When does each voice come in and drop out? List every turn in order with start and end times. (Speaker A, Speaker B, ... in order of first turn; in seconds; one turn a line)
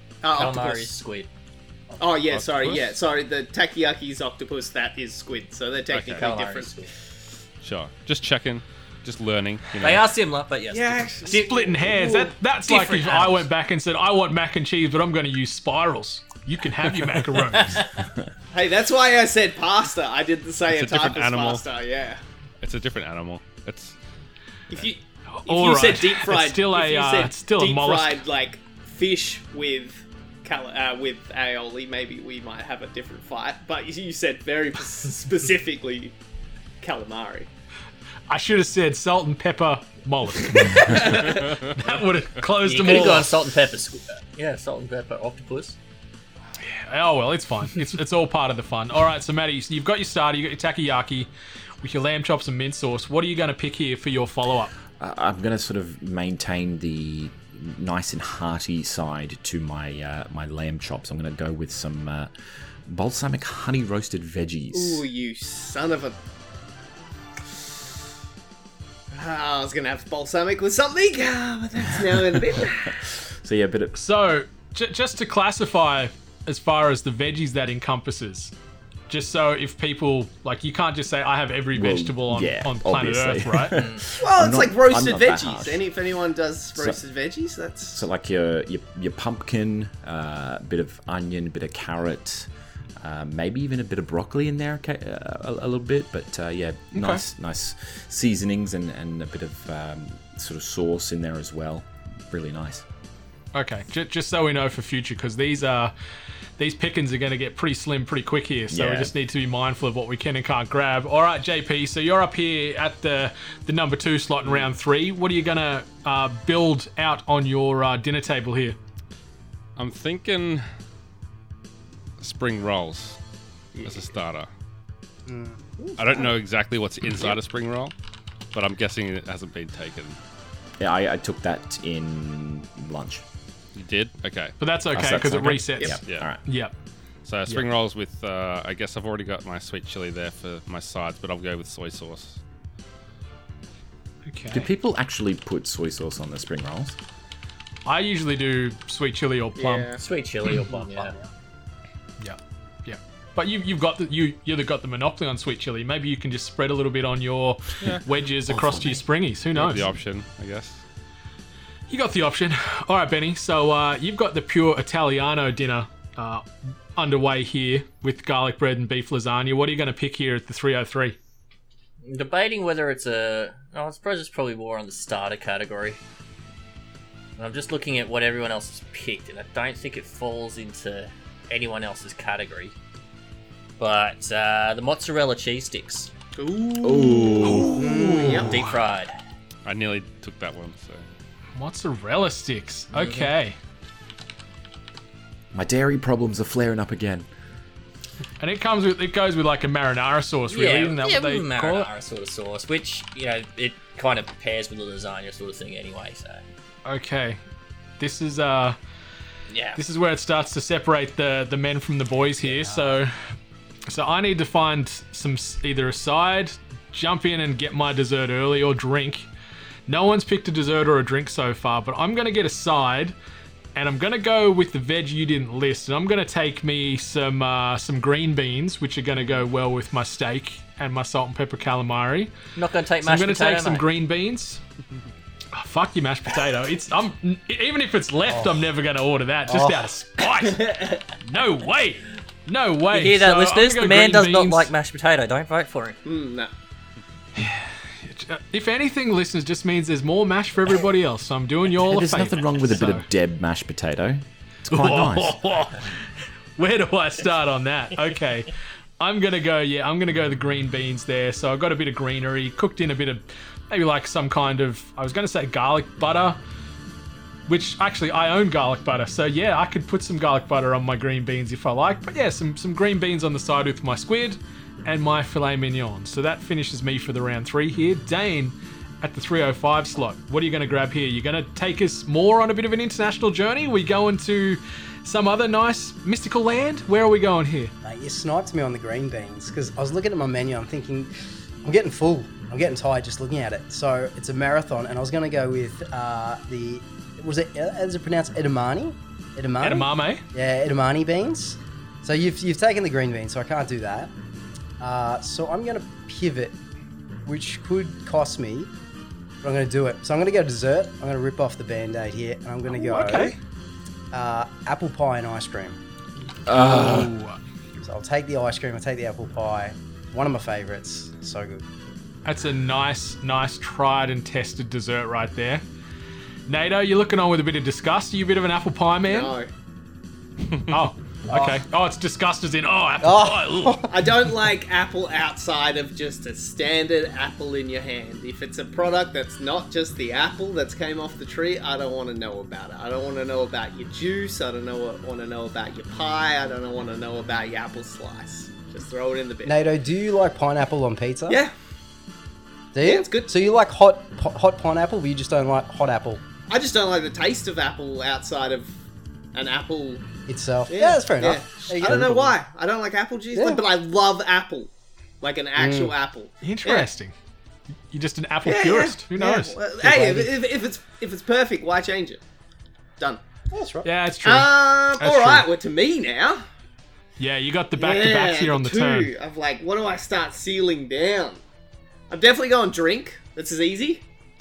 Speaker A: 0.2-0.9
Speaker B: 0.3-1.3
Speaker A: 2.0-6.7
Speaker C: 2.3-3.0
Speaker C: 5.9-6.3
Speaker B: 6.2-6.9
Speaker C: 7.6-10.1
Speaker B: 9.8-11.4
Speaker A: 10.7-12.4
Speaker D: 11.3-17.8
Speaker B: 12.6-13.5
Speaker A: 18.5-22.2
Speaker C: 20.7-21.6
Speaker C: 22.6-23.9
Speaker A: 24.7-36.1
Speaker D: 25.3-28.2
Speaker A: 36.8-37.5
Speaker D: 38.3-43.3
Speaker B: 42.6-45.8
Speaker D: 46.6-51.3
Speaker D: 51.8-54.7
Speaker E: 55.0-62.3
Speaker E: 62.9-65.0
Speaker A: 64.7-66.2
Speaker A: 69.1-73.0
Speaker E: 73.4-74.0
Speaker D: 74.0-78.5
Speaker D: 79.1-83.8
Speaker E: 81.7-85.8
Speaker B: 83.8-84.1
Speaker A: 84.1-88.1
Speaker E: 88.0-92.5
Speaker E: 93.0-102.8
Speaker D: 96.9-97.2
Speaker D: 103.5-105.9
Speaker D: 106.6-118.8
Speaker E: 108.7-109.1
Speaker C: 119.8-120.6
Speaker C: 122.2-123.2
Speaker A: 123.8-124.1
Speaker C: 123.8-124.5
Speaker F: 125.3-125.6
Speaker A: 125.8-126.3
Speaker C: 126.0-127.9
Speaker C: 128.5-130.2
Speaker E: 130.8-133.2
Speaker C: 133.8-134.6
Speaker D: 134.6-136.7
Speaker E: 134.9-136.4
Speaker C: 137.2-142.4
Speaker D: 144.3-144.7
Speaker E: 144.5-147.0
Speaker D: 147.9-150.0
Speaker A: 149.6-150.0
Speaker B: 150.0-151.1
Speaker F: 151.0-151.3
Speaker D: 152.2-159.9
Speaker E: 158.5-159.0
Speaker C: 159.5-160.8
Speaker D: 161.9-171.2
Speaker B: 172.0-176.0
Speaker B: 177.4-182.7
Speaker B: 183.8-186.1
Speaker A: 186.4-188.6
Speaker E: 186.8-187.8
Speaker D: 187.4-188.7
Speaker F: 187.7-188.6
Speaker B: 188.3-189.1
Speaker C: 189.7-191.1
Speaker D: 191.6-193.6
Speaker B: 192.9-193.3
Speaker E: 195.5-197.3
Speaker D: 198.4-201.9
Speaker B: 200.5-206.4
Speaker D: 206.8-207.4
Speaker D: 208.0-208.8
Speaker B: 209.5-209.8
Speaker D: 209.8-213.1
Speaker F: 212.4-213.0
Speaker D: 213.9-219.3
Speaker D: 219.9-223.2
Speaker D: 223.8-232.3
Speaker B: 232.6-233.9
Speaker D: 233.0-234.6
Speaker D: 235.5-244.7
Speaker F: 238.3-238.7
Speaker F: 239.5-239.8
Speaker A: 240.6-240.9
Speaker B: 242.9-246.0
Speaker A: 246.1-246.5
Speaker D: 247.4-253.1
Speaker E: 251.8-255.4
Speaker D: 254.7-256.0
Speaker D: 256.6-266.4
Speaker D: 267.5-287.7
Speaker F: 287.8-291.1
Speaker F: 291.6-304.1
Speaker D: 299.6-300.2
Speaker F: 304.8-306.6
Speaker F: 307.3-308.7
Speaker F: 309.4-313.4
Speaker D: 312.7-313.4
Speaker F: 314.1-315.8
Speaker E: 316.5-317.1
Speaker D: 316.5-317.4
Speaker F: 316.6-317.1
Speaker F: 317.8-321.6
Speaker D: 322.2-325.6
Speaker D: 326.5-329.3
Speaker A: 329.1-329.5
Speaker D: 330.7-333.9
Speaker F: 331.3-331.6
Speaker F: 333.0-334.0
Speaker A: 333.9-349.6
Speaker F: 349.4-351.4
Speaker A: 351.3-351.5
Speaker F: 352.8-356.2
Speaker A: 352.8-353.3
Speaker A: 356.5-358.7
Speaker A: 359.3-360.0
Speaker F: 360.3-362.4
Speaker A: 360.7-364.7
Speaker F: 363.4-363.6
Speaker A: 365.2-366.9
Speaker F: 365.6-366.0
Speaker D: 366.4-367.1
Speaker D: 367.9-369.6
Speaker A: 368.4-372.2
Speaker F: 369.8-370.4
Speaker F: 373.5-373.9
Speaker D: 373.9-375.5
Speaker A: 374.2-376.4
Speaker D: 377.2-379.1
Speaker A: 377.8-381.4
Speaker A: 382.1-384.0